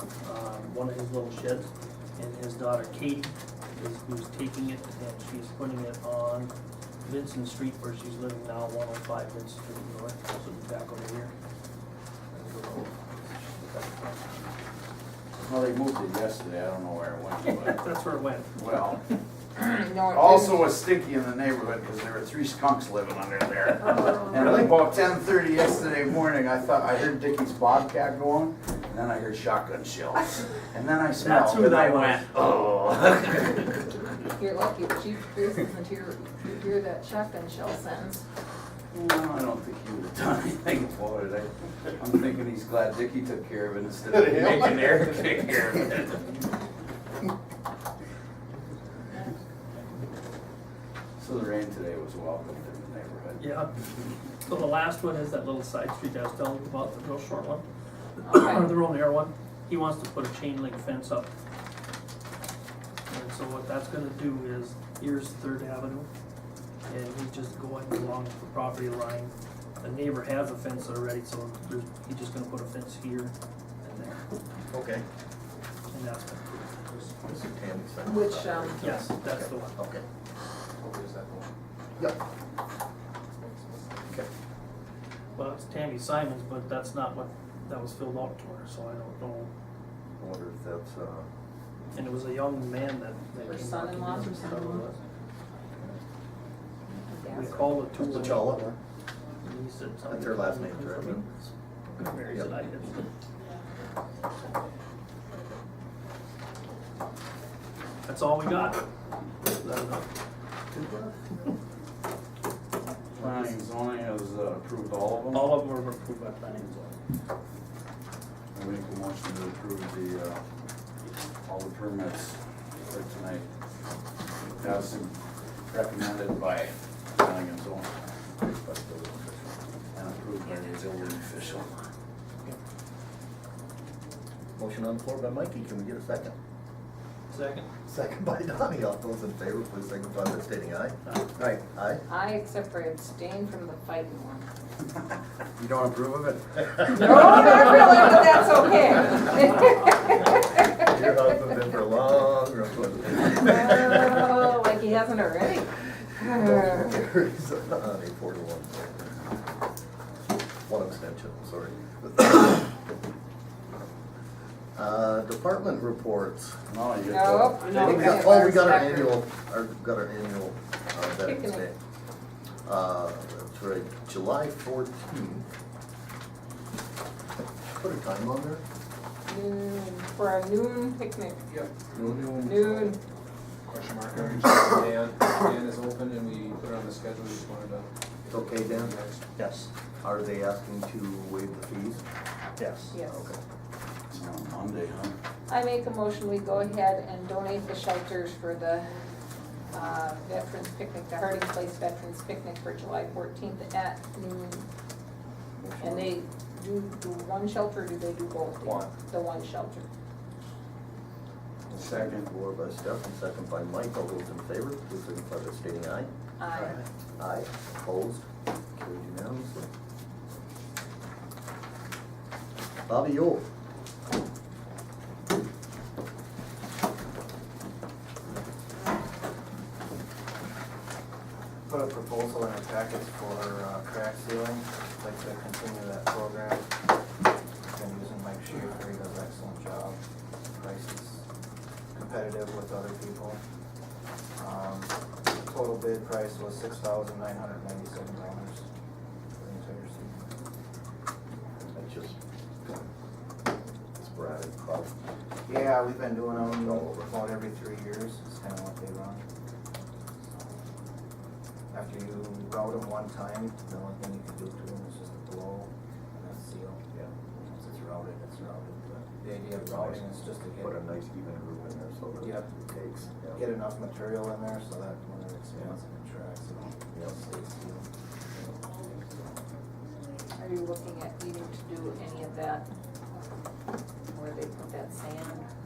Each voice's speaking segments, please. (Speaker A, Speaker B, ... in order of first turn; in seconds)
Speaker A: 0.2-6.5, 7.0-11.3, 12.3-14.2, 17.5-18.6, 31.2-32.2, 53.4-53.7, 54.4-57.6, 58.2-61.3, 63.1-66.1, 66.9-74.2, 75.9-76.7, 78.8-79.8, 85.4-89.5, 91.9-94.9, 97.3-98.8, 99.4-103.0, 108.1-108.8, 109.5-110.1, 110.7-111.2, 113.2-113.5, 115.3-116.9, 137.3-137.7, 189.4-189.7, 192.6-193.0
Speaker B: 15.4-17.8, 18.6-19.0, 20.1-33.8, 38.9-46.4, 51.2-53.4, 113.2-115.6, 118.5-120.4, 121.5-123.5, 124.6-125.2, 125.7-128.0, 129.9-131.7, 145.6-147.3, 166.7-168.2, 194.1-195.2, 211.8-212.3
Speaker C: 19.6-20.7, 23.8-24.6, 34.4-38.2, 58.2-58.7, 78.0-79.0, 93.4-94.9, 97.1-97.8, 130.5-131.9, 142.1-144.4, 146.9-150.7, 153.3-157.0, 167.0-169.2, 171.2-171.7, 179.3-181.5, 182.4-183.0, 192.9-193.3, 195.5-198.9, 199.7-204.7, 205.8-209.9, 216.4-216.8, 280.4-282.6, 284.1-285.5
Speaker D: 74.7-75.0, 77.2-80.0, 90.2-91.3, 94.5-94.9, 97.5-98.8, 100.1-101.2, 102.3-102.5, 128.4-129.6, 134.6-136.3, 137.9-142.0, 150.8-154.3, 156.3-159.2, 160.7-162.7, 164.8-166.6, 167.7-171.8, 172.7-175.5, 177.7-178.6, 188.3-188.9, 190.0-192.0, 193.1-193.4, 205.6-206.2, 211.7-216.1, 217.2-219.7, 222.9-223.4, 251.6-252.8, 254.0-255.0, 256.3-257.1, 269.6-273.5, 276.9-277.2
Speaker E: 80.8-81.5, 83.4-83.8, 181.5-182.9, 183.7-187.9, 188.6-189.2
Speaker F: 231.7-236.7, 237.7-240.0, 240.5-241.2, 241.9-243.4, 244.4-244.9, 245.4-248.6, 249.4-250.3, 255.5-259.2, 261.7-270.8, 272.2-272.5, 273.4-278.9